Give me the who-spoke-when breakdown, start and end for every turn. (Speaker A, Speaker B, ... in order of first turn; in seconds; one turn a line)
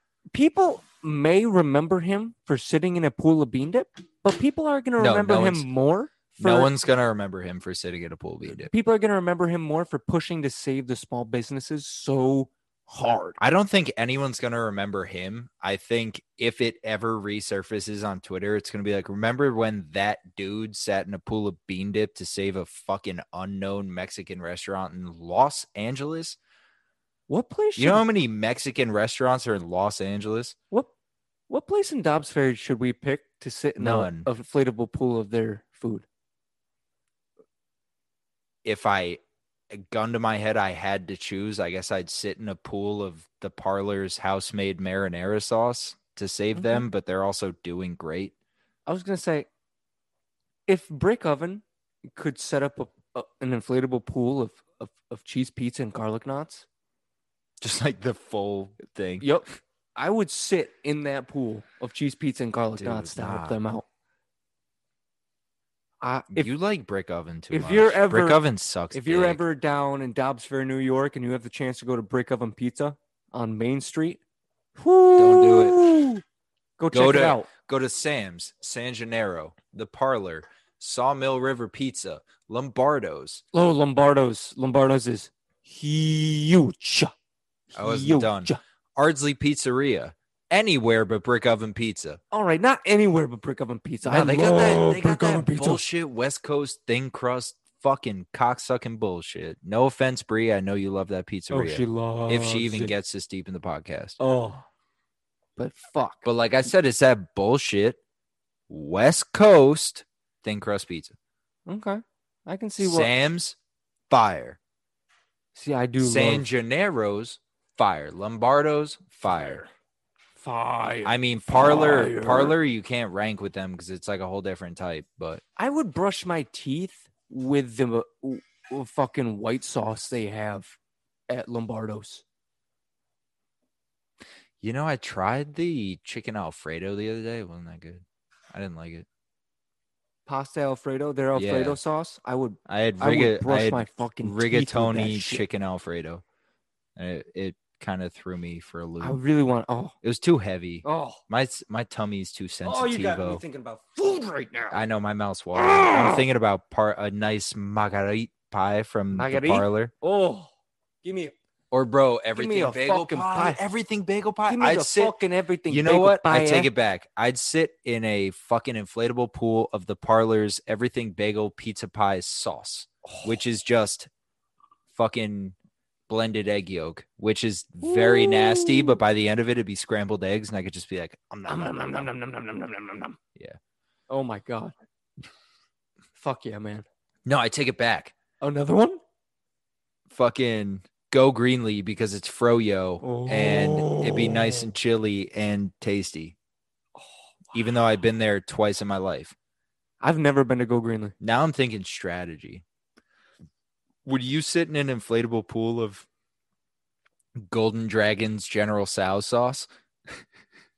Speaker A: 0.3-6.7
Speaker B: 5.0-5.7
Speaker B: 6.4-8.7
Speaker A: 8.6-13.4
Speaker B: 13.4-26.4
Speaker A: 27.3-28.1
Speaker B: 27.8-30.6
Speaker A: 31.5-36.0
Speaker B: 33.8-34.3
Speaker B: 38.6-48.3
Speaker A: 46.5-46.9
Speaker A: 48.9-49.5
Speaker A: 50.7-51.6
Speaker A: 52.1-56.6
Speaker B: 57.6-59.3
Speaker A: 59.2-63.9
Speaker B: 62.8-63.6
Speaker A: 66.0-66.5
Speaker B: 66.3-69.4
Speaker A: 67.5-74.2
Speaker A: 74.8-76.2
Speaker B: 75.2-76.0
Speaker A: 76.8-77.5
Speaker B: 76.9-83.4
Speaker A: 83.5-87.1
Speaker A: 87.7-88.6
Speaker B: 87.7-92.2
Speaker A: 92.3-95.8
Speaker B: 94.0-104.2
Speaker A: 101.5-102.9
Speaker A: 104.2-104.7
Speaker A: 105.6-106.3
Speaker B: 106.2-108.0
Speaker B: 108.7-111.2
Speaker A: 111.7-113.1
Speaker B: 112.8-113.6
Speaker B: 114.1-114.6
Speaker A: 115.5-116.5
Speaker B: 116.0-119.6
Speaker A: 119.3-119.7
Speaker A: 120.4-122.5
Speaker B: 121.0-125.4
Speaker A: 125.6-130.8
Speaker A: 131.3-132.2
Speaker B: 134.6-139.1
Speaker A: 140.2-145.4
Speaker B: 141.3-141.8
Speaker B: 142.7-146.2
Speaker B: 146.9-149.2
Speaker A: 149.0-149.9
Speaker B: 150.0-153.4
Speaker A: 150.8-151.2
Speaker A: 152.6-154.8
Speaker B: 154.7-159.9
Speaker A: 155.5-156.2
Speaker A: 159.1-160.5
Speaker A: 161.0-161.3
Speaker B: 161.7-165.2
Speaker A: 162.3-163.6
Speaker A: 164.5-166.7
Speaker B: 165.7-174.1
Speaker A: 173.1-173.3
Speaker B: 174.9-175.6
Speaker B: 176.1-182.1
Speaker A: 177.8-179.0
Speaker A: 181.5-183.2
Speaker A: 184.1-184.7
Speaker A: 186.1-186.8
Speaker B: 187.2-188.1
Speaker A: 188.4-189.0
Speaker B: 190.1-196.3
Speaker A: 193.0-194.7
Speaker A: 197.0-197.8
Speaker B: 197.5-199.3
Speaker A: 200.0-201.2
Speaker B: 201.2-202.6
Speaker B: 204.0-206.1
Speaker B: 207.3-209.7